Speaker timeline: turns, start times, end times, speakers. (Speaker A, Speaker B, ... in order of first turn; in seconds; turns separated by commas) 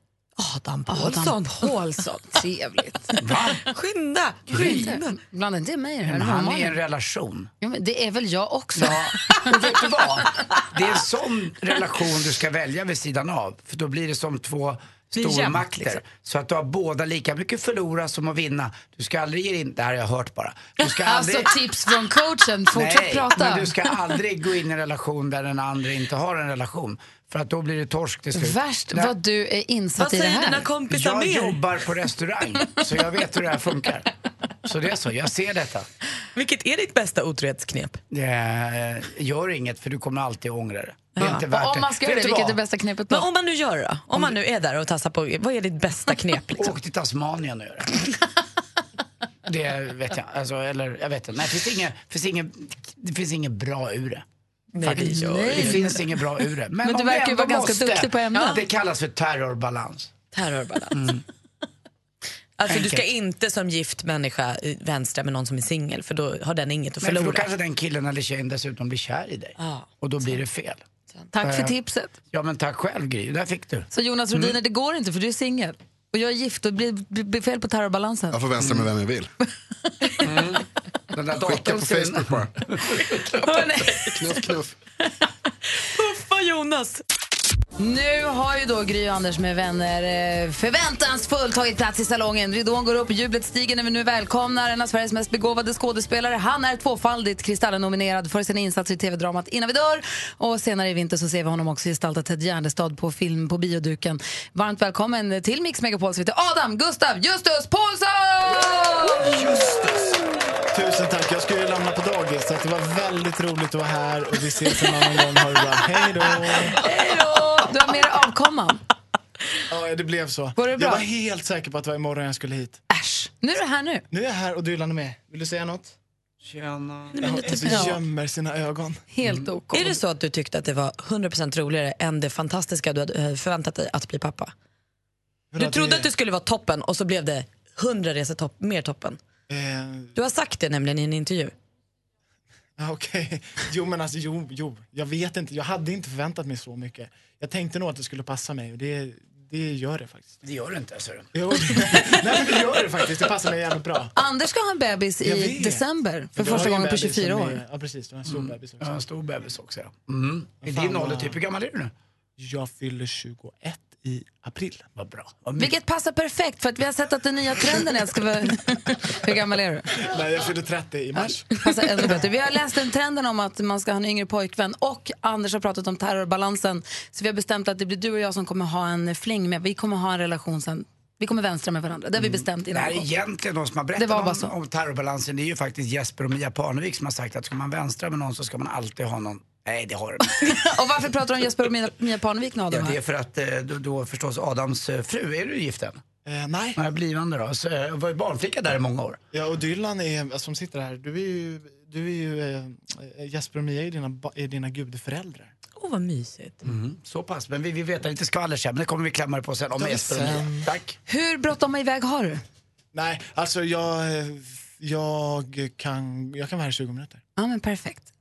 Speaker A: 0.4-2.1, Speaker B: 0.9-3.2, Speaker C: 3.2-3.6, Speaker A: 3.6-5.2, Speaker C: 4.5-4.8, Speaker B: 4.5-6.8, Speaker C: 6.0-7.5, Speaker B: 7.6-9.5, Speaker C: 8.7-21.6, Speaker A: 15.2-16.0, Speaker B: 20.8-23.8, Speaker C: 22.7-29.1, Speaker B: 28.3-30.6, Speaker A: 30.0-31.6, Speaker C: 30.9-34.1, Speaker C: 34.6-35.9, Speaker A: 36.3-38.0, Speaker C: 38.1-42.5, Speaker A: 41.1-41.5, Speaker B: 41.2-43.3, Speaker A: 43.1-46.7, Speaker C: 46.5-47.9, Speaker C: 49.4-54.2, Speaker A: 54.7-55.9, Speaker C: 54.8-60.1, Speaker B: 54.8-56.0, Speaker B: 56.8-58.6, Speaker A: 58.3-58.6, Speaker A: 60.3-61.1, Speaker C: 60.9-61.2, Speaker A: 62.6-67.5, Speaker C: 67.0-70.8, Speaker A: 69.6-70.3, Speaker B: 71.3-72.1, Speaker C: 72.3-74.5, Speaker B: 73.9-78.4, Speaker D: 78.3-79.3, Speaker C: 78.6-78.8, Speaker C: 80.2-83.2, Speaker D: 81.4-82.5, Speaker B: 83.4-84.1, Speaker A: 83.6-84.2, Speaker D: 84.2-84.7, Speaker A: 85.7-87.0, Speaker B: 87.8-109.5, Speaker E: 110.7-116.8, Speaker B: 116.7-118.8, Speaker A: 116.8-117.1, Speaker E: 119.7-122.8, Speaker B: 120.6-121.0, Speaker B: 122.9-124.0, Speaker E: 124.1-126.0, Speaker C: 126.4-127.2, Speaker A: 127.1-128.0, Speaker E: 127.2-129.0, Speaker B: 127.7-128.0, Speaker B: 129.1-130.0, Speaker A: 129.7-134.5, Speaker E: 135.5-136.1, Speaker A: 135.6-139.2, Speaker E: 139.5-140.1, Speaker A: 140.1-141.5, Speaker E: 142.8-150.4, Speaker C: 150.4-151.3, Speaker E: 151.3-154.1, Speaker B: 154.1-157.6, Speaker E: 155.2-155.8, Speaker E: 156.3-158.9, Speaker C: 158.2-161.9, Speaker E: 160.6-161.4, Speaker E: 162.4-164.9, Speaker C: 165.0-165.7, Speaker B: 165.6-169.9, Speaker E: 170.0-172.2, Speaker B: 171.2-183.1, Speaker C: 182.2-190.5, Speaker B: 183.9-184.5, Speaker B: 190.3-193.0, Speaker C: 192.7-196.0, Speaker E: 196.2-196.8, Speaker C: 196.8-199.2, Speaker E: 199.3-205.5, Speaker A: 205.8-206.6, Speaker C: 206.6-210.9, Speaker E: 209.8-210.7, Speaker B: 211.1-212.4, Speaker E: 212.9-217.2, Speaker B: 217.4-218.1